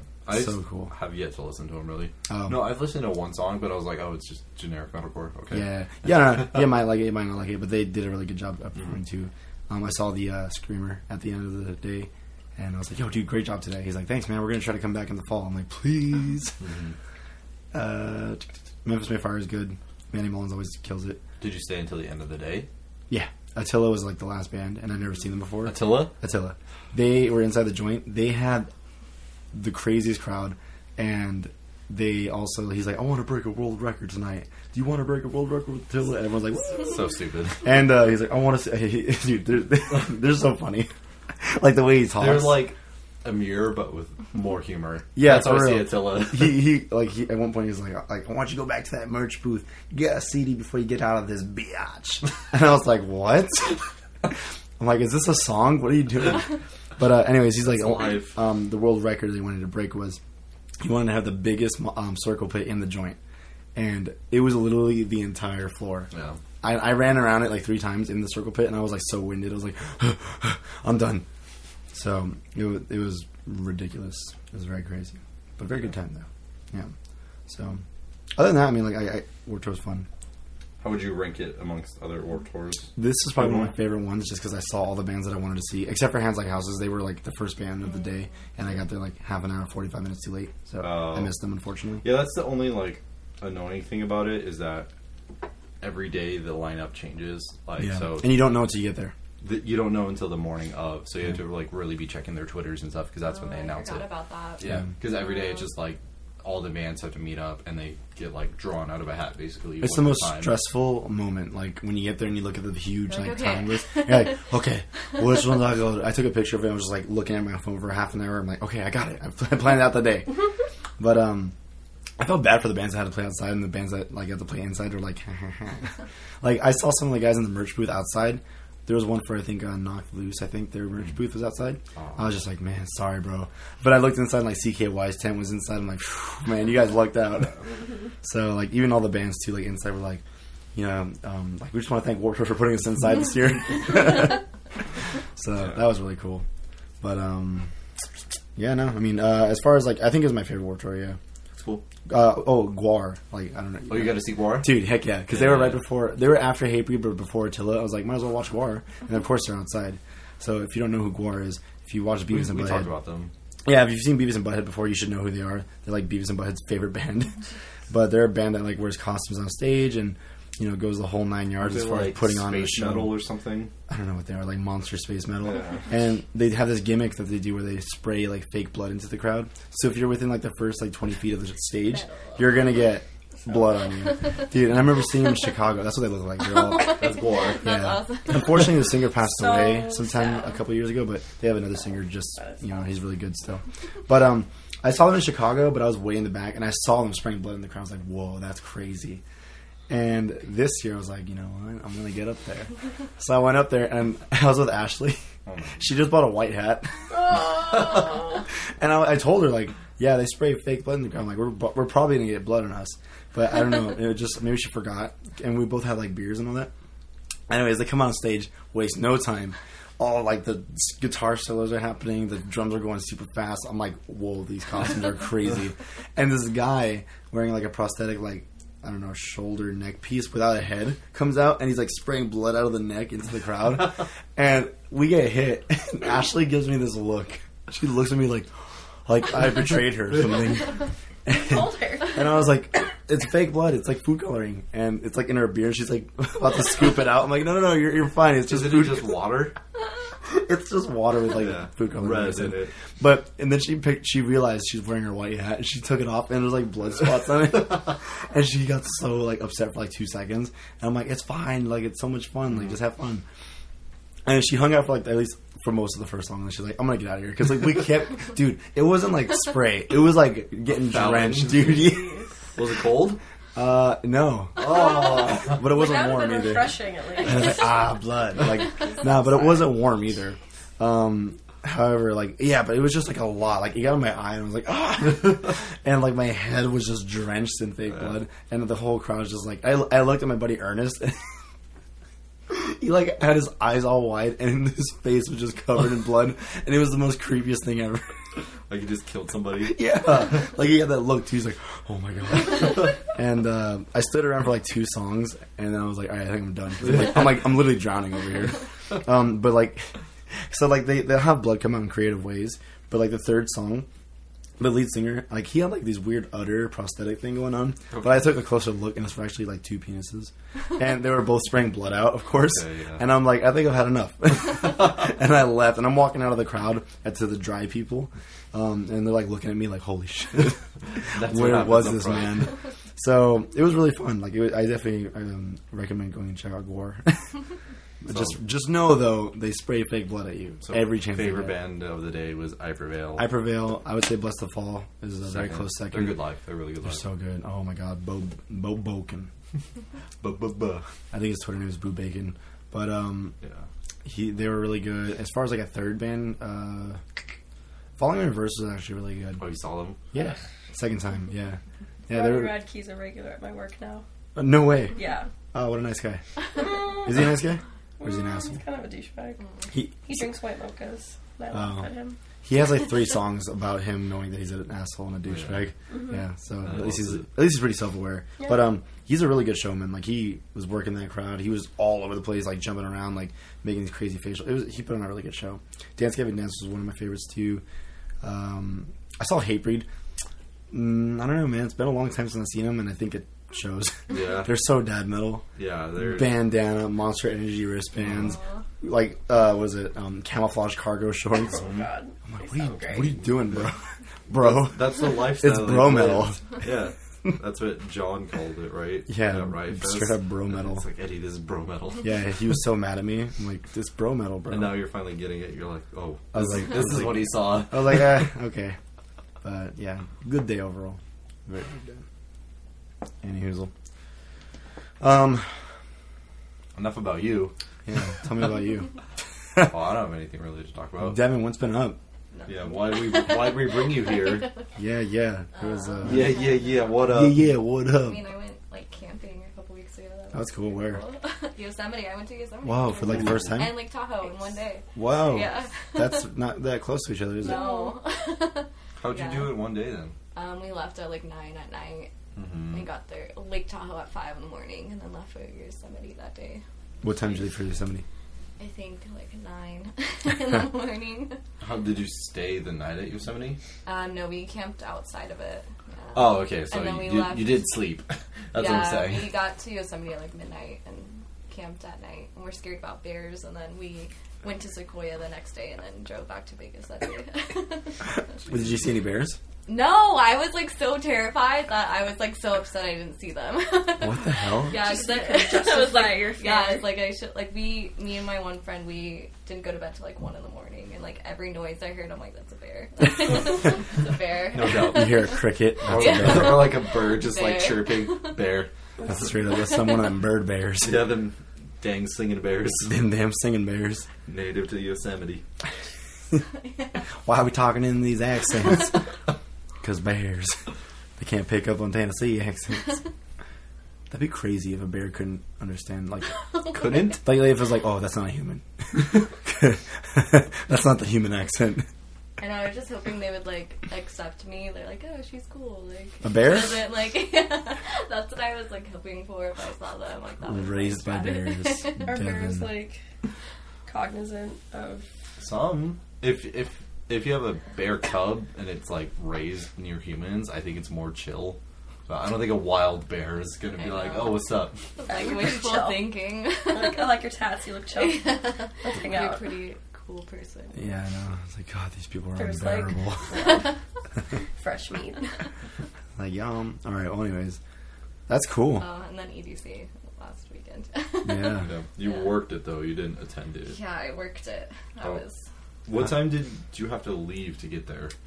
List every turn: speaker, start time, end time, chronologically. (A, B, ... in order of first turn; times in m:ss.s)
0:00.2-0:05.7 A
0:00.3-0:00.9 B
0:02.3-0:02.8 B
0:05.5-0:16.6 B
0:16.6-0:16.9 A
0:17.7-0:21.2 B
0:21.4-0:22.7 A
0:23.1-0:28.7 B
0:25.6-0:26.1 A
0:29.5-0:37.0 B
0:36.8-0:37.6 A
0:37.6-0:42.7 B
0:42.2-0:46.6 A
0:45.1-1:00.2 B
0:57.6-0:58.4 A
1:00.8-1:03.2 B
1:03.7-1:06.1 B
1:06.1-1:06.4 A
1:06.6-1:11.2 B
1:11.9-1:16.9 B
1:17.5-1:17.8 B
1:18.4-1:20.1 B
1:20.8-1:23.7 A
1:23.0-1:32.0 B
1:30.8-1:31.3 A
1:32.0-1:34.9 A
1:35.8-1:38.4 A
1:37.8-1:39.1 B
1:39.4-1:50.6 A
1:43.3-1:44.6 C
1:49.8-2:00.4 B
1:53.1-1:54.4 C
2:01.0-2:01.5 B
2:02.2-2:17.6 B
2:12.0-2:12.3 A
2:18.2-2:20.2 B
2:20.7-2:24.4 B
2:25.4-2:26.4 B
2:27.0-2:27.7 B
2:28.6-2:31.2 B
2:31.5-2:31.8 A
2:32.1-2:42.9 B
2:33.9-2:34.8 A
2:35.3-2:35.8 A
2:42.3-2:43.3 A
2:43.6-2:47.3 B
2:47.9-2:53.2 B
2:51.6-2:53.7 A
2:53.9-3:19.2 B
2:55.4-2:55.8 A
3:01.9-3:02.6 C
3:06.5-3:08.8 C
3:06.7-3:07.7 A
3:09.2-3:10.4 D
3:19.9-3:25.2 B
3:25.4-3:25.8 A
3:25.8-3:36.7 B
3:37.5-3:58.5 B
3:59.0-4:09.2 B
4:01.3-4:02.3 D
4:08.4-4:09.5 A
4:10.2-4:23.2 B
4:11.3-4:12.7 A
4:24.2-4:32.1 B
4:30.7-4:31.7 A
4:31.6-4:32.3 D
4:32.6-4:33.2 A
4:33.5-4:51.2 B
4:34.6-4:35.5 A
4:34.6-4:37.8 D
4:38.8-4:39.1 D
4:52.5-4:58.1 B
4:58.7-4:59.8 A
4:59.6-5:09.9 B
5:10.5-5:13.9 B
5:14.6-5:37.4 B
5:22.4-5:23.1 A
5:31.0-5:32.4 A
5:38.0-5:41.6 B
5:38.0-5:38.4 A
5:40.6-5:43.3 A
5:43.2-5:46.2 B
5:45.2-5:47.0 A
5:46.8-5:49.3 B
5:50.2-5:50.8 A
5:51.1-5:53.3 B
5:54.0-5:57.0 B
5:58.0-5:59.4 B
5:59.4-6:00.0 A
6:00.1-6:02.6 B
6:02.1-6:04.0 D
6:04.4-6:05.0 B
6:04.9-6:05.3 D
6:05.5-6:08.6 B
6:06.5-6:07.2 D
6:08.0-6:09.4 D
6:09.7-6:10.3 B
6:10.0-6:12.2 D
6:11.5-6:11.9 B
6:12.4-6:27.6 B
6:15.3-6:15.7 A
6:15.9-6:16.2 D
6:16.6-6:17.2 A
6:18.4-6:18.7 D
6:28.2-6:29.9 B
6:30.7-6:35.4 B
6:34.1-6:34.5 A
6:35.6-6:36.4 A
6:36.0-6:41.6 B
6:38.0-6:38.4 A
6:41.4-6:43.2 D
6:41.5-6:41.9 A
6:42.2-6:46.4 B
6:44.3-6:52.1 A
6:49.1-6:50.8 B
6:52.0-6:54.8 B
6:54.5-6:58.2 A
6:56.3-6:58.8 B
6:59.4-7:02.0 B
7:03.2-7:03.7 B
7:05.0-7:05.5 B
7:06.7-7:07.5 A
7:07.8-7:08.9 B
7:09.6-7:11.2 A
7:11.0-7:12.0 B
7:12.3-7:14.5 C
7:12.5-7:14.5 A
7:14.8-7:16.4 B
7:15.6-7:16.8 C
7:16.0-7:17.5 A
7:17.0-7:18.2 B
7:18.0-7:26.3 C
7:20.3-7:21.0 B
7:22.6-7:23.8 B
7:23.0-7:23.6 A
7:24.9-7:27.6 B
7:27.4-7:28.0 D
7:27.4-7:29.6 C
7:29.0-7:30.1 A
7:30.3-7:32.1 C
7:32.3-7:32.8 A
7:32.7-7:36.6 C
7:37.0-7:38.0 B
7:38.6-7:41.4 C
7:41.6-7:43.6 A
7:43.8-7:47.7 C
7:46.1-7:49.3 A
7:48.5-7:58.0 C
7:58.4-7:59.4 B
7:59.7-8:15.3 C
8:04.0-8:04.8 B
8:04.7-8:06.9 D
8:14.5-8:15.2 A
8:14.7-8:16.8 B
8:15.8-8:18.7 A
8:15.9-8:18.4 C
8:19.0-8:21.1 B
8:20.8-8:23.0 A
8:22.8-8:24.1 B
8:24.2-8:25.4 A
8:27.2-8:29.0 B
8:29.8-8:33.0 B
8:34.1-8:36.4 B
8:36.4-8:37.2 C
8:36.7-8:37.2 A
8:37.1-8:41.9 B
8:42.4-8:52.2 C
8:46.2-8:46.8 B
8:50.4-8:52.7 B
8:52.0-8:53.0 D
8:53.8-8:55.0 D
8:55.4-9:04.8 A
9:03.8-9:04.4 C
9:05.0-9:07.2 C
9:05.0-9:06.1 D
9:06.7-9:09.4 D
9:07.9-9:10.9 C
9:10.7-9:13.6 B
9:12.4-9:13.7 D
9:14.6-9:15.3 D
9:16.2-9:17.6 B
9:18.3-9:18.8 B
9:18.8-9:22.3 C
9:21.2-9:21.7 B
9:21.6-9:23.8 A
9:23.7-9:25.4 C
9:25.8-9:28.1 A